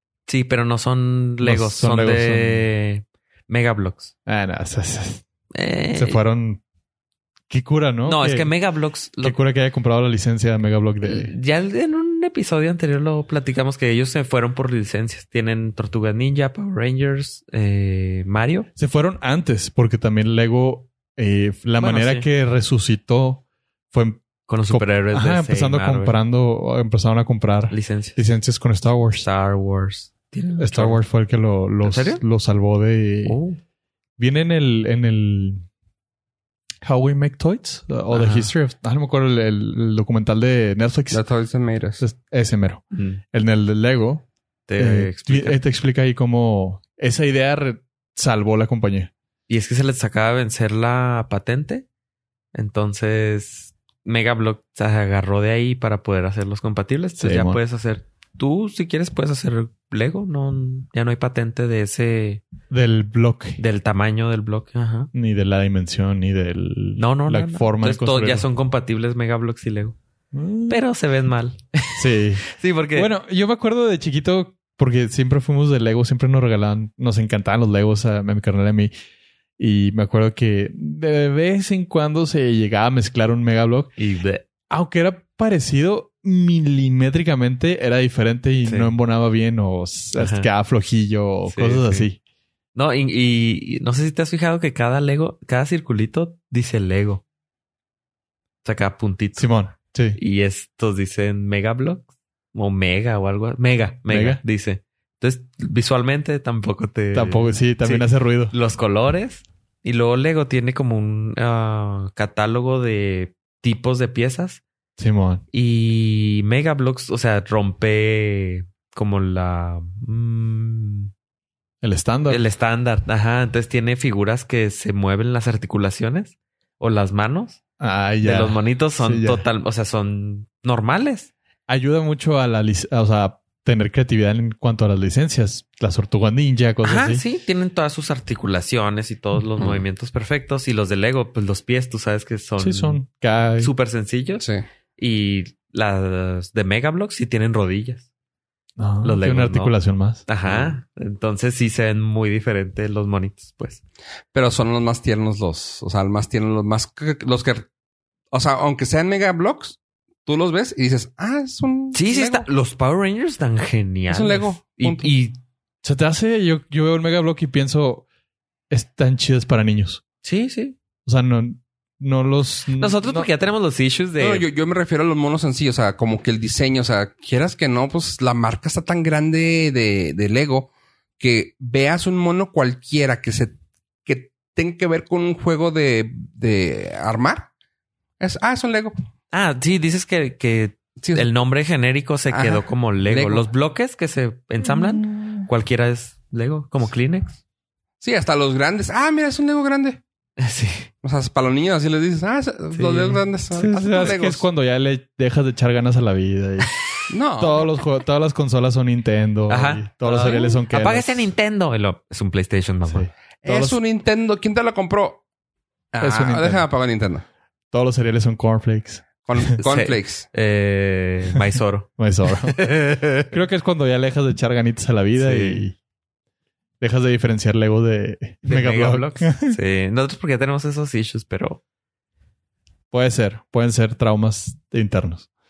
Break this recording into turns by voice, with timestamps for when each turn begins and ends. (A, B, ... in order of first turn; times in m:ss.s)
0:00.3-0:04.1 A
0:01.4-0:02.7 B
0:04.3-0:05.2 B
0:05.5-0:06.2 A
0:05.9-0:06.6 B
0:07.5-0:08.5 B
0:08.1-0:09.4 A
0:09.2-0:11.3 B
0:11.0-0:18.7 A
0:18.8-0:29.3 B
0:21.8-0:22.3 A
0:24.5-0:26.2 A
0:27.7-0:28.2 A
0:29.2-0:31.0 A
0:30.6-0:33.4 B
0:31.8-0:32.2 A
0:33.2-0:33.6 A
0:34.2-0:35.6 B
0:36.8-0:41.2 B
0:38.1-0:38.5 A
0:41.1-0:42.0 C
0:42.0-0:44.3 B
0:42.9-0:43.2 A
0:44.7-0:45.6 A
0:44.8-0:49.1 B
0:49.5-0:51.9 A
0:52.5-1:02.4 A
0:57.2-0:57.6 B
1:02.7-1:03.6 B
1:03.6-1:05.1 A
1:05.1-1:08.5 B
1:07.0-1:10.0 A
1:10.3-1:10.8 B
1:10.7-1:13.1 A
1:12.0-1:18.9 B
1:19.6-1:23.9 B
1:24.0-1:24.4 A
1:24.7-1:32.2 B
1:28.6-1:28.9 A
1:30.2-1:30.5 A
1:31.5-1:32.1 A
1:32.8-1:37.2 A
1:38.6-1:39.5 A
1:39.4-1:40.2 B
1:40.2-1:54.6 A
1:44.1-1:44.4 B
1:47.1-1:48.5 B
1:55.0-1:55.4 B
1:55.5-2:01.1 A
2:01.8-2:02.4 B
2:02.3-2:07.6 A
2:07.8-2:09.4 B
2:08.2-2:11.3 A
2:11.7-2:17.2 B
2:16.8-2:23.0 A
2:22.6-2:23.7 B
2:23.6-2:24.4 A
2:25.0-2:28.0 A
2:28.8-2:30.2 B
2:29.0-2:29.8 A
2:30.3-2:33.8 A
2:30.4-2:30.7 C
2:34.3-2:37.7 C
2:38.3-2:42.5 C
2:41.9-2:45.4 A
2:44.1-2:45.1 C
2:45.8-2:48.1 B
2:48.7-2:50.0 B
2:50.2-2:50.8 A
2:51.1-2:53.3 B
2:52.8-2:54.4 A
2:54.2-3:07.5 C
3:08.2-3:09.0 C
3:09.3-3:17.4 A
3:11.0-3:11.3 C
3:12.3-3:13.5 C
3:14.7-3:15.4 B
3:18.0-3:20.0 C
3:20.4-3:20.9 A
3:21.0-3:24.4 C
3:22.7-3:23.7 A
3:23.6-3:26.7 B
3:27.1-3:27.7 C
3:27.4-3:31.3 B
3:29.5-3:33.1 A
3:32.9-3:33.8 B
3:33.4-3:35.2 C
3:35.9-3:37.2 C
3:36.0-3:36.6 B
3:37.7-3:39.4 B
3:39.2-3:40.3 C
3:39.6-3:43.3 A
3:42.0-3:42.6 B
3:43.2-3:45.8 B
3:45.2-3:45.7 A
3:46.8-3:49.6 B
3:48.4-3:51.6 A
3:52.9-3:55.3 B